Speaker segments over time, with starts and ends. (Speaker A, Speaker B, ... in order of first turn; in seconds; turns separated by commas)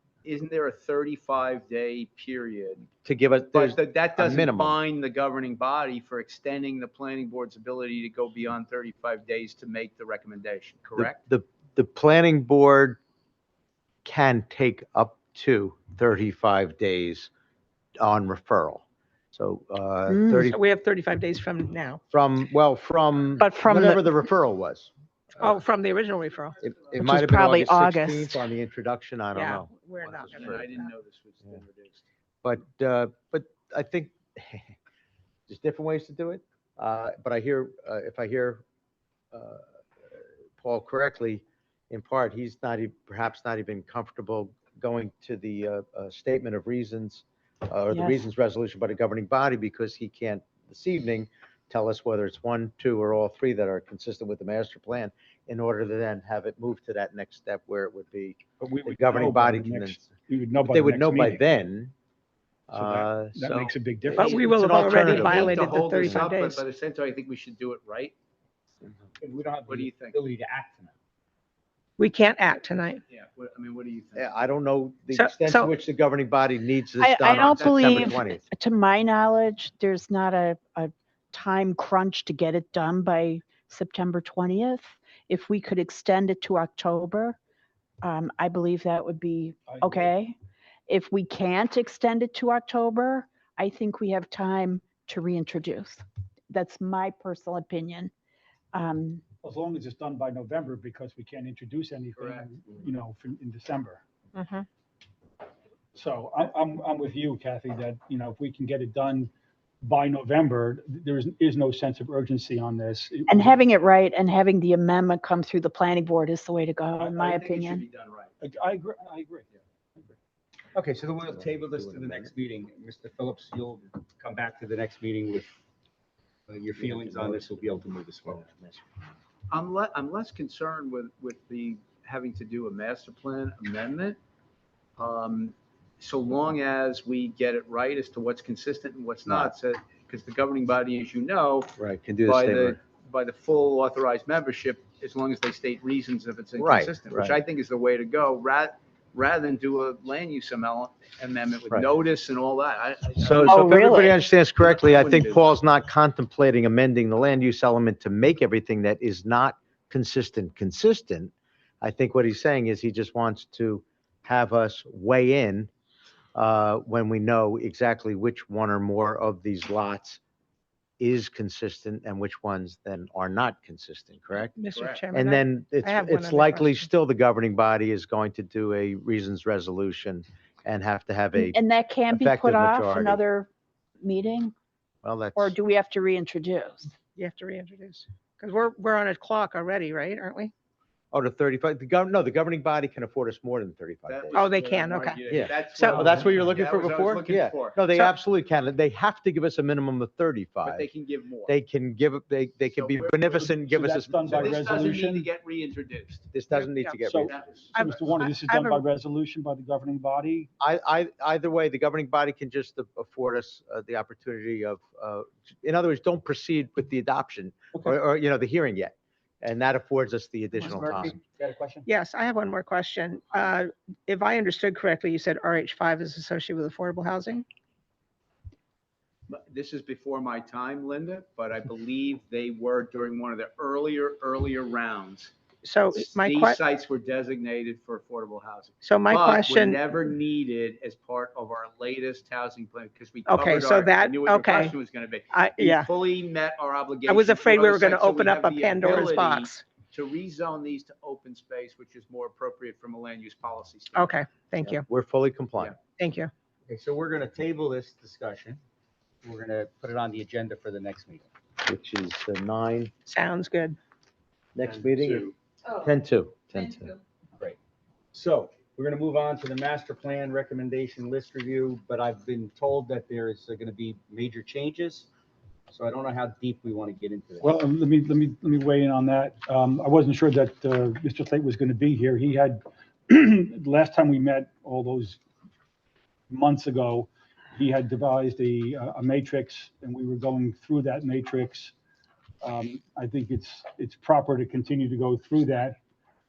Speaker A: 0.2-2.9, Speaker B: 3.0-4.8, Speaker A: 3.5-11.2, Speaker B: 11.0-13.0, Speaker B: 14.0-17.3, Speaker B: 18.0-20.6, Speaker C: 20.1-20.4, Speaker D: 20.4-22.0, Speaker B: 22.1-24.9, Speaker C: 23.4-24.1, Speaker D: 25.4-26.6, Speaker B: 26.6-30.9, Speaker C: 26.9-28.5, Speaker D: 29.3-30.7, Speaker A: 30.3-32.0, Speaker B: 32.4-34.8, Speaker B: 35.5-38.6, Speaker B: 39.3-39.7, Speaker B: 40.6-60.0, Speaker C: 47.9-48.3, Speaker E: 58.6-61.4, Speaker B: 60.6-61.9, Speaker B: 62.7-63.6, Speaker E: 62.7-65.2, Speaker D: 64.1-66.6, Speaker B: 64.1-66.2, Speaker A: 65.1-68.1, Speaker F: 69.2-70.9, Speaker A: 69.7-70.2, Speaker D: 72.0-73.0, Speaker A: 73.1-74.3, Speaker B: 74.2-78.4, Speaker D: 75.1-75.7, Speaker C: 77.0-87.4, Speaker A: 77.2-78.2, Speaker C: 88.0-98.1, Speaker E: 89.7-90.1, Speaker C: 98.7-99.2, Speaker E: 99.4-104.0, Speaker A: 102.2-102.6, Speaker D: 104.3-104.7, Speaker E: 105.9-109.3, Speaker E: 109.8-113.5, Speaker C: 113.3-117.8, Speaker A: 117.0-118.3, Speaker E: 118.4-119.5, Speaker F: 120.7-125.5, Speaker F: 126.5-128.7, Speaker B: 127.0-127.3, Speaker A: 129.5-134.2, Speaker A: 135.0-153.9, Speaker B: 139.3-139.5, Speaker B: 141.8-142.8, Speaker B: 146.6-147.4, Speaker B: 153.2-165.7, Speaker C: 153.5-154.2, Speaker A: 154.6-155.5, Speaker B: 166.3-170.2, Speaker B: 171.0-174.5, Speaker D: 174.3-176.9, Speaker A: 174.7-175.1, Speaker B: 175.1-183.2, Speaker C: 181.3-183.5, Speaker C: 184.0-184.5, Speaker B: 185.0-185.5, Speaker C: 185.3-187.0, Speaker D: 187.1-190.5, Speaker B: 191.1-194.4, Speaker A: 194.1-197.8, Speaker D: 194.3-196.1, Speaker B: 195.3-200.9, Speaker E: 196.1-196.6, Speaker A: 200.6-201.5, Speaker B: 201.5-204.8, Speaker A: 202.7-203.5, Speaker E: 203.5-205.3, Speaker A: 204.3-206.4, Speaker B: 206.3-207.3, Speaker D: 206.5-207.0, Speaker E: 207.0-210.5, Speaker A: 207.2-208.1, Speaker D: 207.7-208.8, Speaker B: 210.6-221.2, Speaker E: 220.7-221.8, Speaker F: 220.8-221.6, Speaker D: 221.8-227.4, Speaker A: 229.3-235.3, Speaker D: 235.6-236.6, Speaker A: 235.9-254.2, Speaker D: 238.8-239.8, Speaker D: 243.3-244.8, Speaker D: 245.3-245.9, Speaker D: 247.1-249.6, Speaker D: 253.9-254.8, Speaker B: 254.6-255.7, Speaker D: 256.0-256.3, Speaker F: 256.7-258.6, Speaker F: 259.2-261.3, Speaker B: 261.6-262.9, Speaker D: 263.0-263.8, Speaker B: 264.5-266.9, Speaker F: 264.6-265.2, Speaker F: 268.1-275.1, Speaker F: 275.7-277.5, Speaker E: 277.4-285.2, Speaker E: 286.3-291.7, Speaker E: 292.4-295.8